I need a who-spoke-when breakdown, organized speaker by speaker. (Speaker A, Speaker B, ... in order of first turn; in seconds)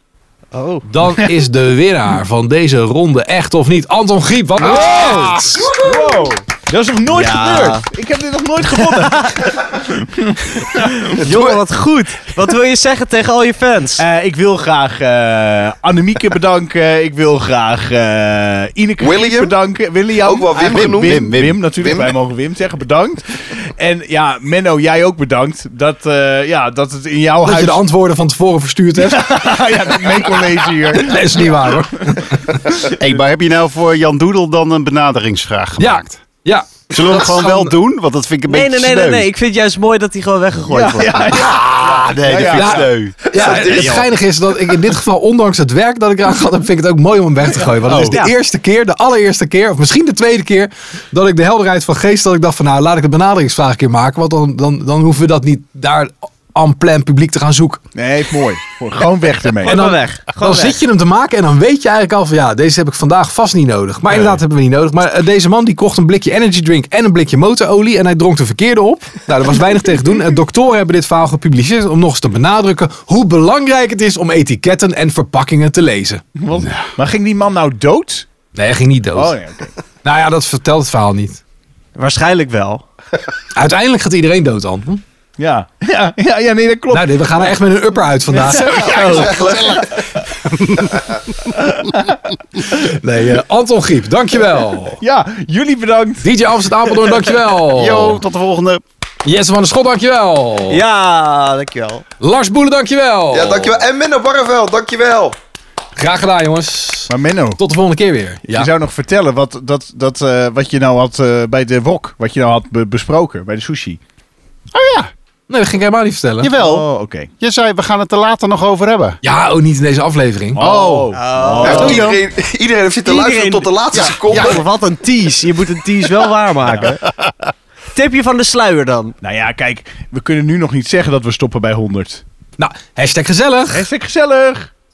Speaker A: 0.5-0.9, 7.1-7.9, 8.7-9.6, 11.0-14.0, 38.5-41.3, 43.3-44.1, 48.0-48.3, 59.6-60.8, 82.0-82.8, 88.7-89.5, 100.7-102.0, 121.1-122.1, 123.0-127.0, 127.9-129.2
Speaker B: 0.8-5.8, 27.4-29.5, 30.9-32.9, 35.8-37.7, 42.5-57.8, 59.6-76.2, 78.5-79.4, 80.0-81.4, 83.5-85.0, 86.9-89.4, 92.7-95.0, 96.2-98.2, 99.2-100.8, 102.2-103.8, 106.0-108.7, 115.5-116.5, 119.2-120.6, 132.6-133.9
Speaker C: 4.6-11.1, 14.0-27.8, 29.0-32.1, 40.7-42.9, 47.8-48.3, 57.9-59.8, 76.4-78.3, 79.1-79.7, 85.4-87.4, 95.0-96.3, 107.1-107.6, 108.5-114.0, 116.6-117.3, 120.5-122.1, 129.2-132.2, 133.7-134.7
Speaker D: 11.2-11.6, 19.0-19.5, 20.2-22.1, 43.3-44.1, 89.1-89.8, 103.3-105.3, 121.6-124.6
Speaker E: 20.7-21.7, 33.0-36.2, 36.9-39.3, 41.3-43.2, 76.5-76.9, 88.7-91.9, 97.7-98.8, 114.7-115.1, 116.4-116.9, 117.4-119.2, 120.5-122.2, 123.9-124.6, 127.1-127.5